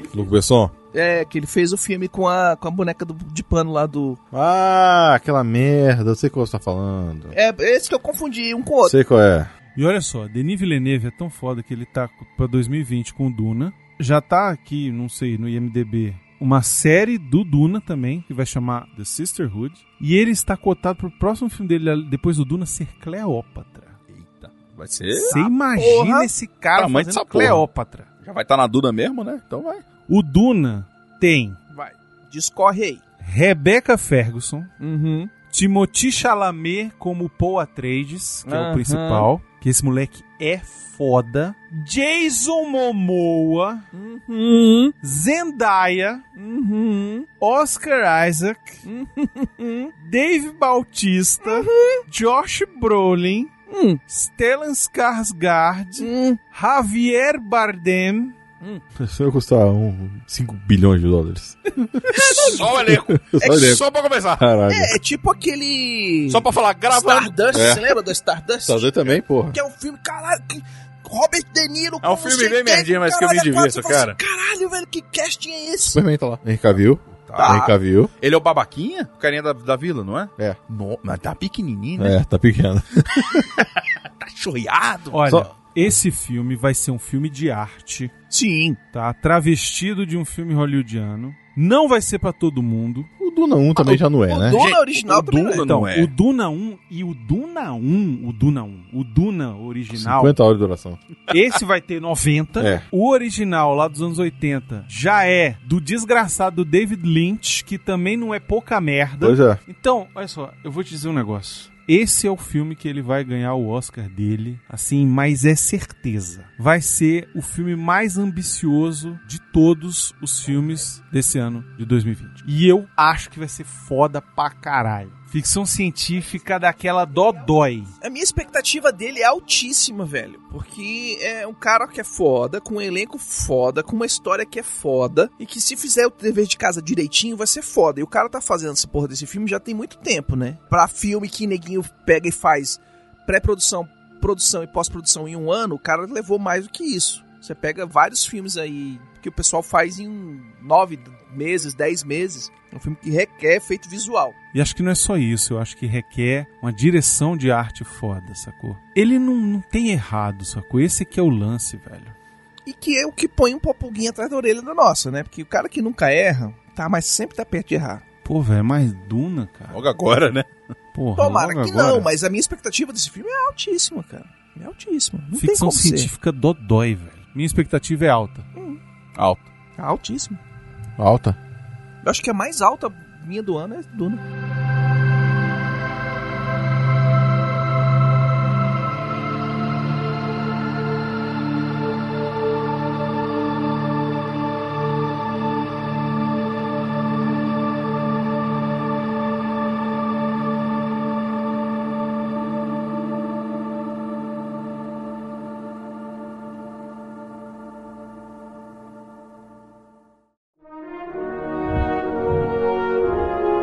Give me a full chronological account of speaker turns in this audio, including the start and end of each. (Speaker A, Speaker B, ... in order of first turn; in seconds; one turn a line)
Speaker A: 0.1-0.7
Speaker B: 0.9-4.2
Speaker A: 4.3-7.3
Speaker B: 7.3-8.9
Speaker A: 8.8-9.5
Speaker C: 9.8-24.0
Speaker D: 24.1-25.4
Speaker B: 25.1-26.3
Speaker C: 25.3-28.1
Speaker D: 26.8-27.6
Speaker D: 28.2-29.8
Speaker C: 30.1-31.6
Speaker B: 31.7-33.0
Speaker C: 33.2-34.7
Speaker B: 34.8-35.3
Speaker C: 35.5-43.9
Speaker B: 38.5-39.3
Speaker B: 43.9-45.0
Speaker C: 45.0-46.2
Speaker B: 46.4-47.3
Speaker C: 47.4-48.8
Speaker B: 48.8-49.9
Speaker C: 50.0-53.5
Speaker B: 51.4-52.0
Speaker B: 53.7-54.0
Speaker C: 54.1-58.3
Speaker B: 56.0-56.4
Speaker A: 59.0-63.8
Speaker B: 62.1-62.8
Speaker D: 62.1-64.5
Speaker B: 63.4-63.8
Speaker A: 64.3-65.0
Speaker B: 64.7-76.0
Speaker D: 66.3-67.8
Speaker A: 67.5-67.8
Speaker A: 68.6-69.6
Speaker D: 72.0-74.2
Speaker A: 75.9-78.1
Speaker D: 77.1-77.6
Speaker B: 77.3-77.7
Speaker D: 78.2-82.2
Speaker A: 82.0-83.4
Speaker D: 83.5-85.2
Speaker C: 85.1-88.1
Speaker B: 88.3-88.8
Speaker C: 88.9-93.1
Speaker A: 93.2-94.6
Speaker B: 93.8-95.7
Speaker D: 94.5-96.1
Speaker C: 95.6-100.4
Speaker A: 99.9-101.0
Speaker C: 101.3-127.9
Speaker A: 102.6-102.8
Speaker A: 109.2-109.6
Speaker B: 128.0-154.4
Speaker C: 154.5-162.2
Speaker B: 162.7-168.0
Speaker C: 168.2-169.8
Speaker D: 169.7-170.5
Speaker C: 170.9-172.1
Speaker B: 171.2-176.1
Speaker C: 175.3-178.4
Speaker B: 178.5-178.8
Speaker D: 179.2-179.5
Speaker B: 179.8-180.4
Speaker A: 181.0-181.4
Speaker B: 182.0-184.2